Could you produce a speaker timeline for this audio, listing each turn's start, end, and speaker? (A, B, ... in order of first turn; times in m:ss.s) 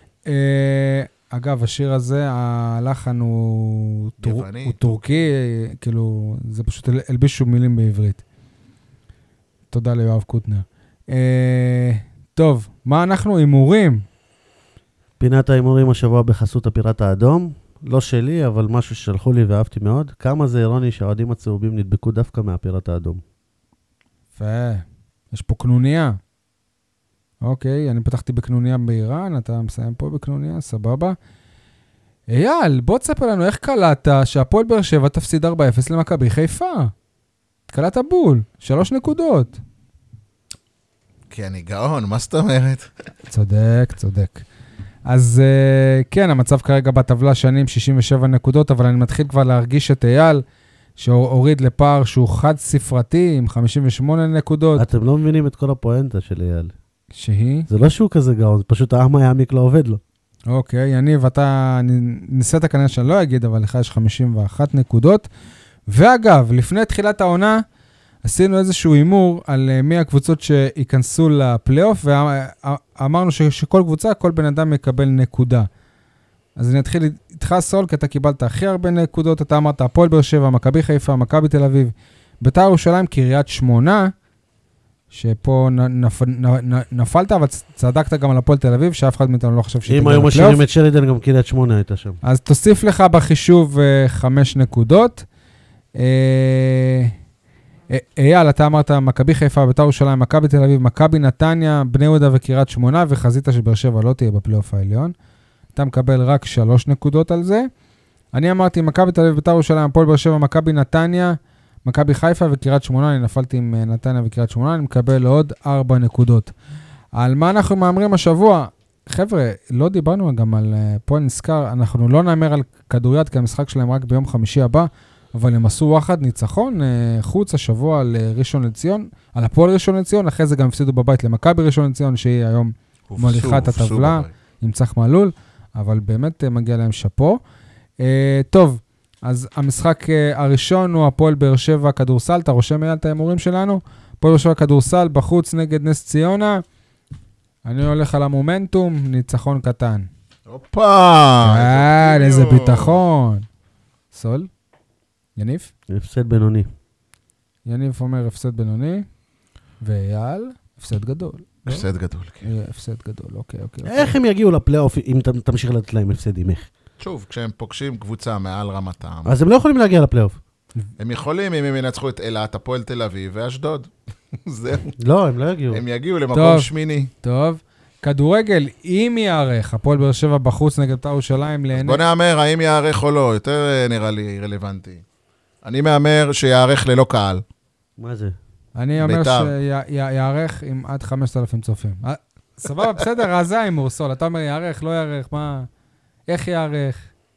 0:00.3-0:08.2 A
0:04.2-0:05.0 B
0:09.7-0:14.0 A
0:15.2-0:23.2 C
0:24.4-0:26.2 A
0:27.4-0:31.2 A
0:32.3-0:36.9 A
0:37.7-0:39.6 A
0:41.3-0:42.9 B
0:43.3-0:44.4 A
0:45.1-0:50.4 A
0:51.0-0:54.9 A
0:54.8-0:56.7 C
0:57.2-0:57.7 A
0:57.7-1:00.0 C
1:00.5-1:05.3 A
1:05.9-1:07.6 A
1:08.2-1:15.7 A
1:16.6-1:24.1 A
1:25.1-1:30.6 A
1:29.9-1:32.2 C
1:32.2-1:35.3 A
1:36.0-1:37.1 A
1:37.9-1:45.1 A
1:45.8-1:47.7 A
1:48.3-1:56.5 A
1:57.2-2:17.4 A
2:13.1-2:14.3 B
2:18.0-2:26.6 A
2:27.6-2:30.1 A
2:30.5-2:33.0 B
2:31.4-2:33.4 A
2:34.1-2:34.5 A
2:35.4-2:35.7 A
2:35.9-2:36.7 C
2:37.7-2:39.1 A
2:39.8-2:41.6 A
2:41.7-2:42.5 B
2:42.4-2:44.1 A
2:43.8-2:46.7 C
2:47.0-2:49.4 B
2:49.3-2:50.4 C
2:51.0-2:54.9 B
2:55.0-2:55.8 C
2:55.7-2:57.1 B
2:56.3-2:56.7 A
2:57.2-3:02.0 A
3:01.7-3:05.0 B
3:05.6-3:07.4 B
3:08.0-3:08.4 C
3:08.8-3:15.7 A
3:09.0-3:09.5 B
3:16.3-3:17.1 A